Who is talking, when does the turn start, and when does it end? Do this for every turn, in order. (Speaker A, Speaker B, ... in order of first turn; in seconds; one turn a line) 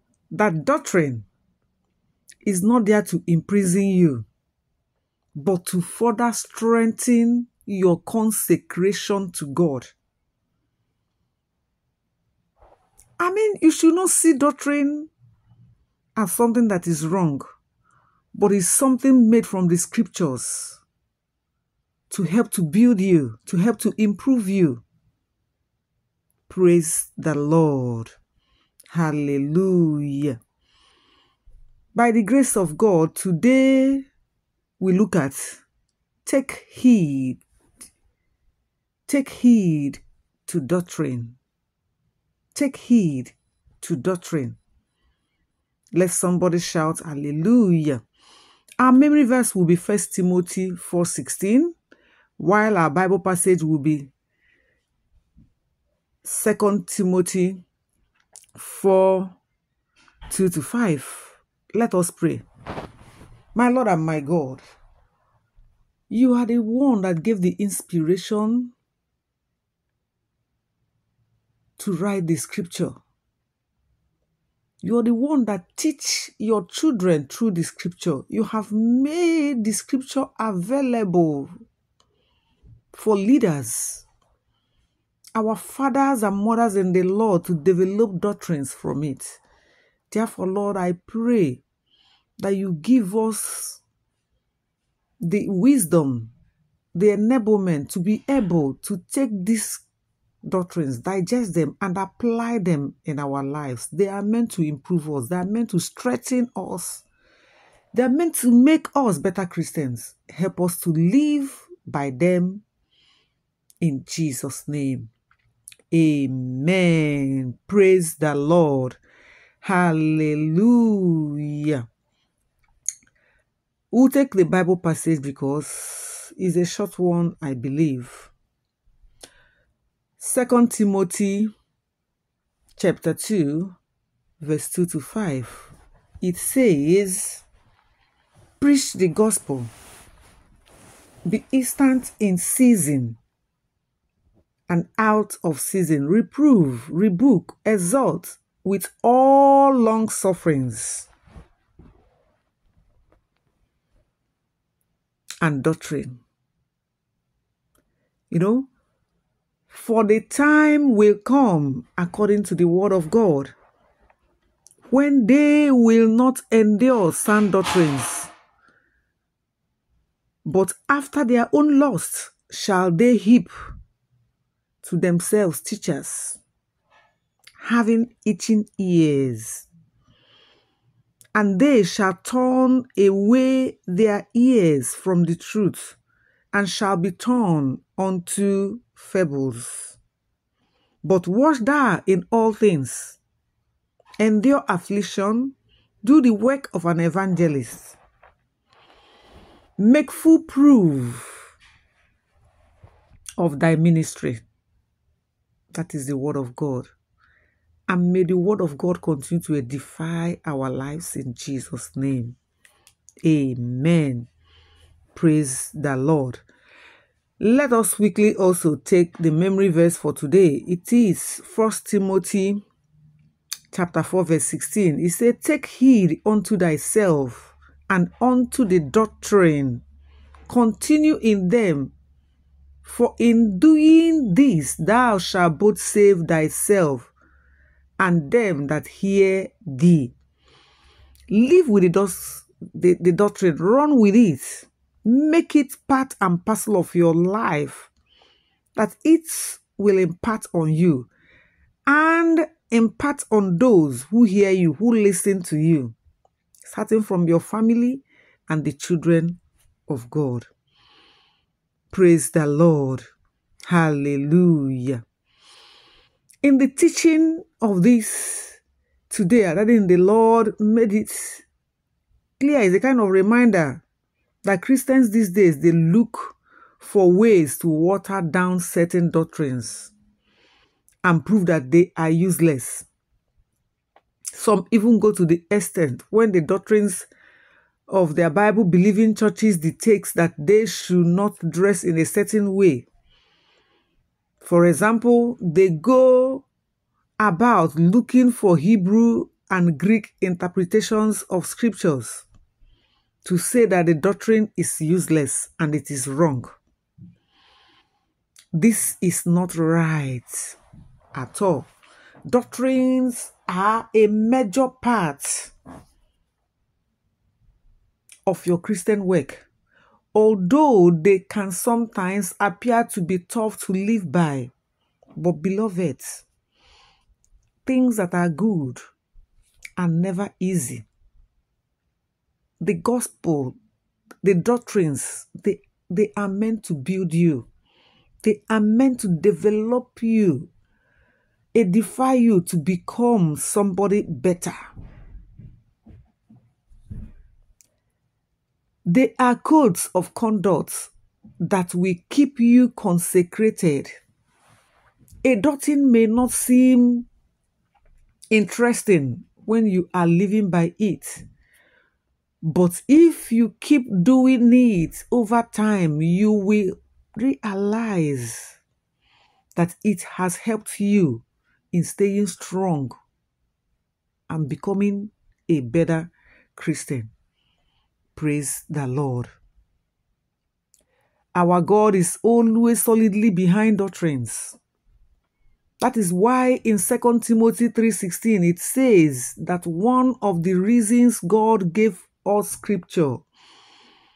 Speaker A: 0.3-1.3
Speaker A: 2.5-4.3
Speaker A: 5.3-9.9
Speaker A: 13.2-15.1
Speaker A: 16.2-17.4
Speaker A: 18.3-20.8
Speaker A: 22.1-24.8
Speaker A: 26.5-28.1
Speaker A: 28.9-30.4
Speaker A: 31.9-34.1
Speaker A: 34.8-35.6
Speaker A: 36.3-37.4
Speaker A: 39.1-41.4
Speaker A: 42.5-44.6
Speaker A: 45.9-48.0
Speaker A: 48.8-51.8
Speaker A: 52.4-54.1
Speaker A: 56.2-57.6
Speaker A: 58.5-59.4
Speaker A: 60.3-62.5
Speaker A: 63.5-64.6
Speaker A: 66.1-68.7
Speaker A: 71.8-73.0
Speaker A: 74.8-81.5
Speaker A: 82.9-84.1
Speaker A: 85.3-89.4
Speaker A: 90.1-91.6
Speaker A: 92.4-93.8
Speaker A: 95.2-96.3
Speaker A: 97.0-99.8
Speaker A: 100.4-107.0
Speaker A: 107.9-112.6
Speaker A: 113.8-115.1
Speaker A: 115.9-119.0
Speaker A: 119.6-121.8
Speaker A: 123.9-128.3
Speaker A: 130.2-131.5
Speaker A: 132.8-133.8
Speaker A: 134.4-137.4
Speaker A: 138.6-139.7
Speaker A: 141.3-143.2
Speaker A: 144.7-151.1
Speaker A: 155.4-156.2
Speaker A: 158.3-158.7
Speaker A: 159.7-163.5
Speaker A: 164.9-168.3
Speaker A: 170.4-173.5
Speaker A: 174.8-176.4
Speaker A: 177.6-179.7
Speaker A: 181.3-186.0
Speaker A: 186.5-190.0
Speaker A: 191.0-193.2
Speaker A: 194.2-198.0
Speaker A: 199.8-201.5
Speaker A: 203.4-204.4
Speaker A: 205.7-206.9
Speaker A: 207.9-212.4
Speaker A: 213.2-214.3
Speaker A: 215.2-216.4
Speaker A: 217.4-222.6
Speaker A: 223.7-229.8
Speaker A: 230.5-231.9
Speaker A: 232.8-237.1
Speaker A: 238.0-240.1
Speaker A: 241.3-247.9
Speaker A: 248.8-251.1
Speaker A: 251.9-255.9
Speaker A: 256.7-260.5
Speaker A: 261.9-263.1
Speaker A: 263.7-265.0
Speaker A: 266.4-271.4
Speaker A: 272.4-273.8
Speaker A: 274.4-279.9
Speaker A: 281.0-282.9
Speaker A: 284.3-287.1
Speaker A: 287.9-292.9
Speaker A: 294.4-296.4
Speaker A: 297.2-302.3
Speaker A: 303.2-306.5
Speaker A: 308.5-310.6
Speaker A: 311.1-311.7
Speaker A: 312.3-315.5
Speaker A: 318.3-319.4
Speaker A: 320.1-324.5
Speaker A: 325.2-326.2
Speaker A: 327.6-328.8
Speaker A: 329.8-330.9
Speaker A: 332.6-333.6
Speaker A: 334.2-337.5
Speaker A: 338.2-340.5
Speaker A: 341.5-344.6
Speaker A: 348.9-350.9
Speaker A: 351.4-354.0
Speaker A: 355.2-357.1
Speaker A: 358.3-361.3
Speaker A: 362.4-368.6
Speaker A: 369.6-373.0
Speaker A: 374.3-377.1
Speaker A: 378.1-379.3
Speaker A: 381.4-384.6
Speaker A: 385.8-393.2